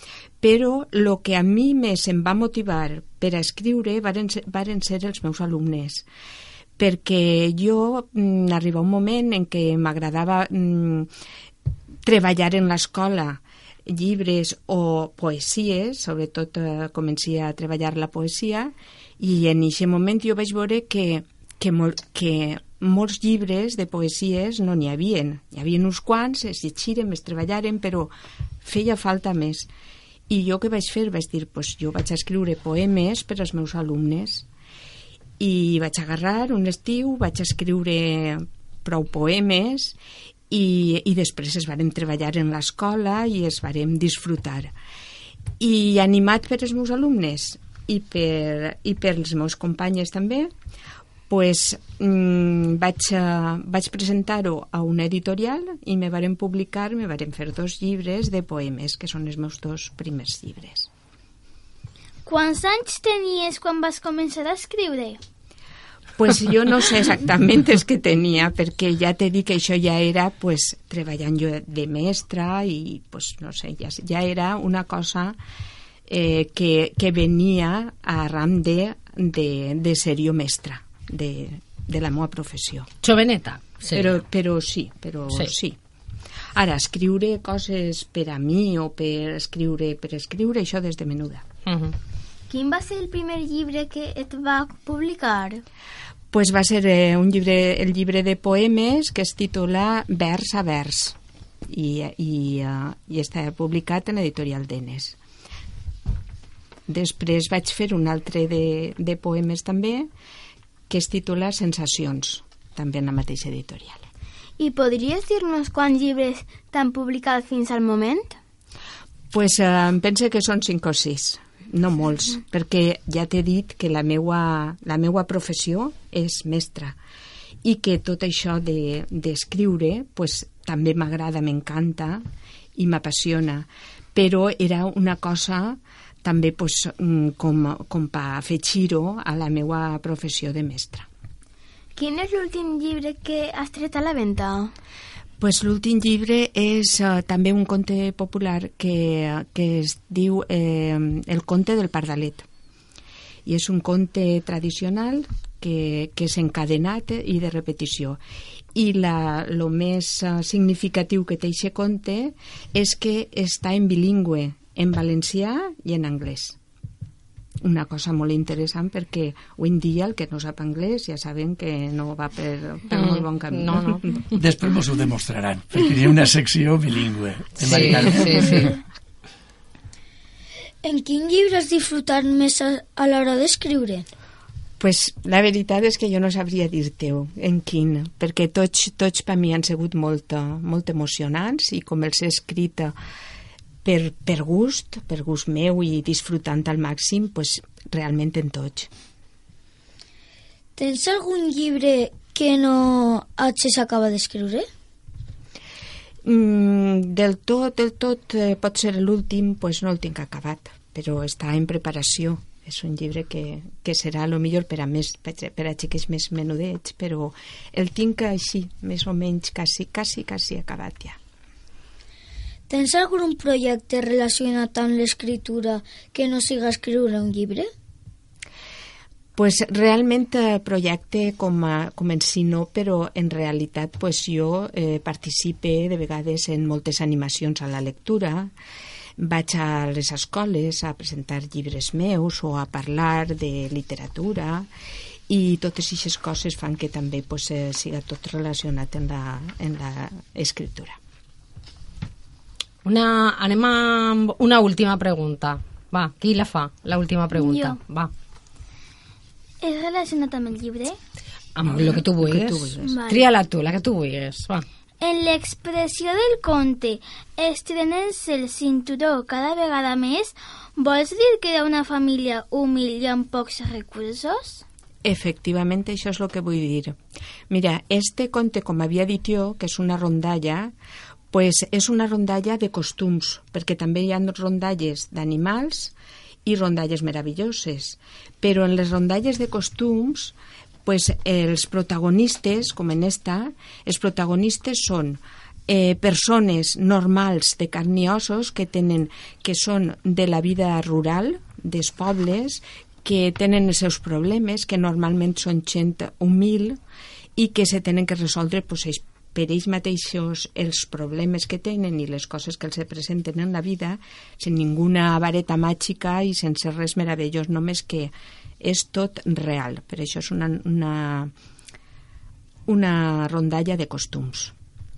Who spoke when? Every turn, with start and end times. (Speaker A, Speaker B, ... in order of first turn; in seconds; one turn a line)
Speaker A: 0.4-6.0
Speaker A: 6.8-11.1
Speaker A: 12.1-28.1
Speaker A: 28.6-29.7
Speaker A: 30.3-34.5
Speaker A: 35.4-40.0
Speaker A: 40.5-44.7
Speaker A: 45.6-50.5
Speaker A: 51.3-60.9
Speaker B: 62.3-65.2
Speaker A: 66.2-75.4
Speaker A: 76.1-82.9
Speaker C: 83.0-84.2
Speaker A: 83.9-85.8
Speaker A: 86.5-91.5
Speaker C: 91.7-92.0
Speaker D: 92.5-95.6
Speaker A: 96.3-101.2
Speaker A: 101.7-105.2
Speaker A: 106.9-110.1
Speaker A: 110.9-114.1
Speaker D: 114.6-118.4
Speaker A: 119.3-127.0
Speaker A: 127.6-132.2
Speaker A: 132.8-141.1
Speaker D: 141.9-144.7
Speaker A: 145.4-152.5
Speaker A: 153.5-158.2
Speaker A: 158.8-166.6
Speaker A: 167.6-174.3
Speaker C: 172.9-174.0
Speaker E: 174.3-178.8
Speaker C: 177.6-178.8
Speaker A: 177.7-178.6
Speaker F: 180.8-184.1
Speaker A: 184.8-192.9
Speaker A: 193.8-198.9
Speaker F: 200.8-204.7
Speaker A: 206.2-221.2
Speaker F: 222.7-227.7
Speaker A: 229.4-238.5
Speaker A: 239.2-244.7
Speaker A: 245.3-251.0
Speaker C: 252.8-258.1
Speaker B: 257.3-257.8
Speaker B: 259.6-261.0
Speaker C: 261.6-264.7
Speaker A: 261.6-263.0
Speaker B: 262.8-263.3
Speaker B: 265.0-274.6
Speaker A: 275.0-277.0
Speaker A: 277.5-280.7
Speaker A: 281.3-285.9
Speaker A: 286.4-306.8
Speaker A: 307.4-321.3
Speaker A: 322.7-324.5